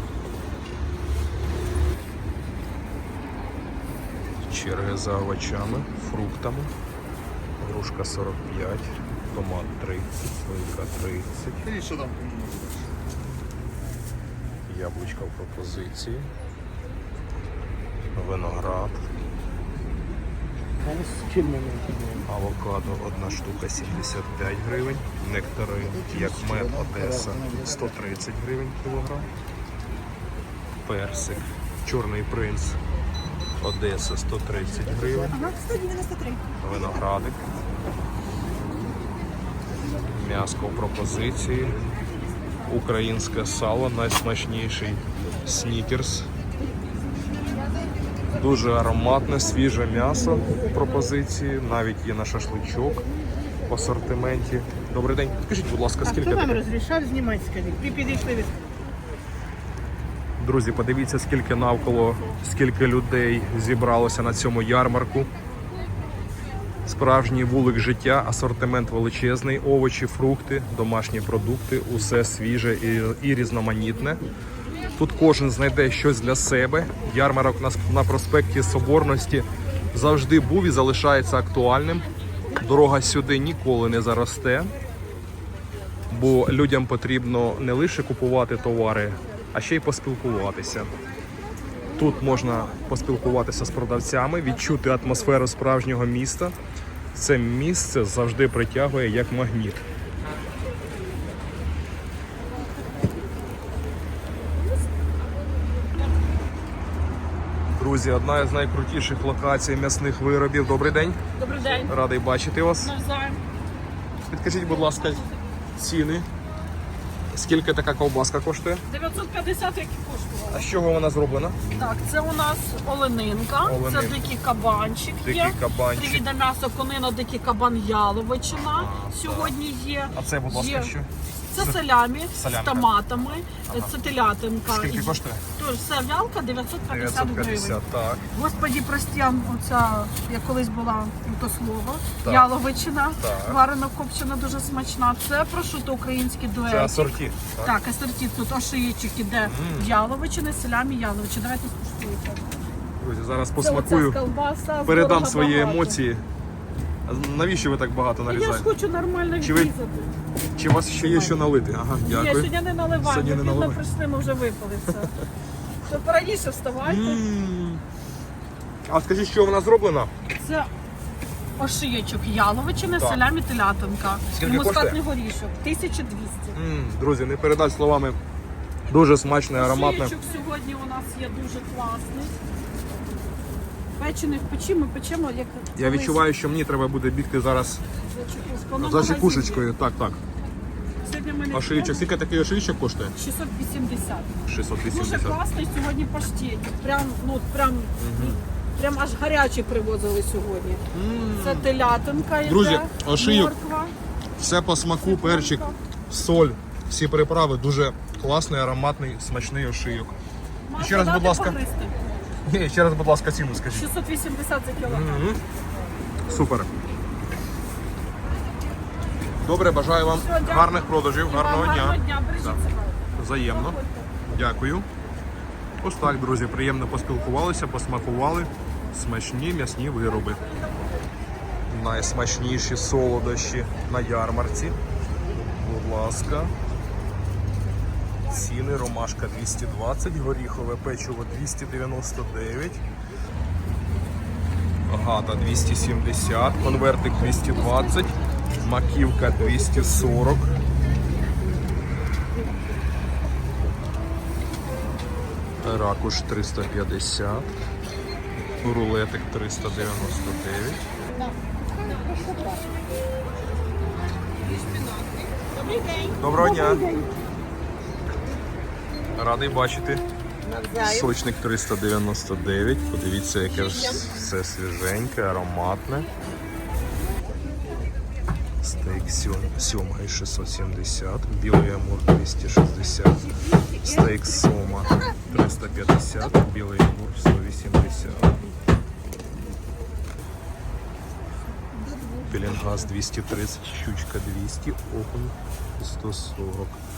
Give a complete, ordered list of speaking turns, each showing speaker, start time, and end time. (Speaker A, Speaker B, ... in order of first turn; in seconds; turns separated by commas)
Speaker A: 4.5-6.7, Speaker A: 7.6-11.8, Speaker A: 14.7-16.3, Speaker A: 18.1-19.0, Speaker B: 21.1-21.8, Speaker A: 22.2-29.3, Speaker A: 30.8-32.8, Speaker A: 33.6-35.3, Speaker C: 35.3-36.4, Speaker A: 36.6-37.4, Speaker A: 40.1-41.8, Speaker A: 42.7-46.3, Speaker A: 48.4-53.0, Speaker A: 53.7-56.6, Speaker B: 56.2-58.4, Speaker A: 60.4-65.3, Speaker A: 66.8-74.2, Speaker A: 75.0-84.7, Speaker A: 86.1-90.9, Speaker A: 91.9-96.5, Speaker A: 97.1-99.8, Speaker A: 107.8-111.2, Speaker D: 111.3-112.0, Speaker A: 111.8-112.9, Speaker D: 112.8-113.4, Speaker A: 114.2-115.2, Speaker D: 114.7-115.5, Speaker A: 115.8-116.3, Speaker A: 117.3-118.8, Speaker D: 118.9-120.7, Speaker A: 120.5-121.6, Speaker D: 121.7-130.9, Speaker A: 123.6-124.2, Speaker A: 125.2-126.2, Speaker A: 128.6-129.6, Speaker A: 130.1-131.8, Speaker D: 131.5-137.8, Speaker A: 132.3-132.9, Speaker A: 133.4-133.9, Speaker A: 134.7-135.4, Speaker A: 136.9-138.2, Speaker D: 138.3-147.1, Speaker A: 142.2-142.5, Speaker A: 143.2-143.6, Speaker A: 146.7-147.7, Speaker D: 147.6-152.6, Speaker A: 149.4-149.9, Speaker A: 153.0-154.2, Speaker D: 153.6-156.0, Speaker A: 154.8-156.2, Speaker A: 157.1-158.7, Speaker D: 158.3-160.1, Speaker A: 159.4-159.7, Speaker A: 160.5-162.5, Speaker D: 161.0-161.3, Speaker D: 162.0-165.1, Speaker A: 163.0-163.8, Speaker D: 165.8-167.2, Speaker A: 166.8-167.8, Speaker A: 168.8-170.1, Speaker D: 170.4-170.7, Speaker D: 171.6-176.6, Speaker A: 172.9-173.2, Speaker A: 174.3-175.0, Speaker A: 176.5-178.2, Speaker A: 178.9-180.1, Speaker D: 179.5-182.3, Speaker D: 184.0-186.2, Speaker A: 185.8-187.8, Speaker D: 188.1-189.7, Speaker A: 188.8-190.2, Speaker D: 191.0-192.0, Speaker A: 191.5-193.2, Speaker D: 193.2-200.8, Speaker A: 194.5-195.4, Speaker A: 198.0-198.4, Speaker A: 200.9-201.7, Speaker D: 201.4-203.9, Speaker A: 202.4-203.5, Speaker A: 204.4-210.2, Speaker D: 205.0-205.8, Speaker D: 210.7-212.2, Speaker A: 210.8-211.6, Speaker A: 212.4-213.9, Speaker D: 213.7-215.3, Speaker A: 214.8-215.4, Speaker A: 216.2-216.7, Speaker A: 219.4-222.6, Speaker D: 220.1-224.1, Speaker A: 223.1-224.9, Speaker A: 225.8-230.4, Speaker A: 231.7-234.8, Speaker A: 235.5-236.5, Speaker A: 238.3-242.8, Speaker A: 244.9-250.5, Speaker A: 255.6-257.5, Speaker A: 258.6-260.8, Speaker C: 261.2-262.6, Speaker C: 265.6-267.1, Speaker D: 265.7-266.1, Speaker A: 266.1-266.8, Speaker A: 269.1-270.0, Speaker C: 270.4-271.1, Speaker A: 270.8-276.1, Speaker A: 278.6-283.2, Speaker A: 283.8-288.3, Speaker C: 291.8-292.3, Speaker A: 292.3-296.8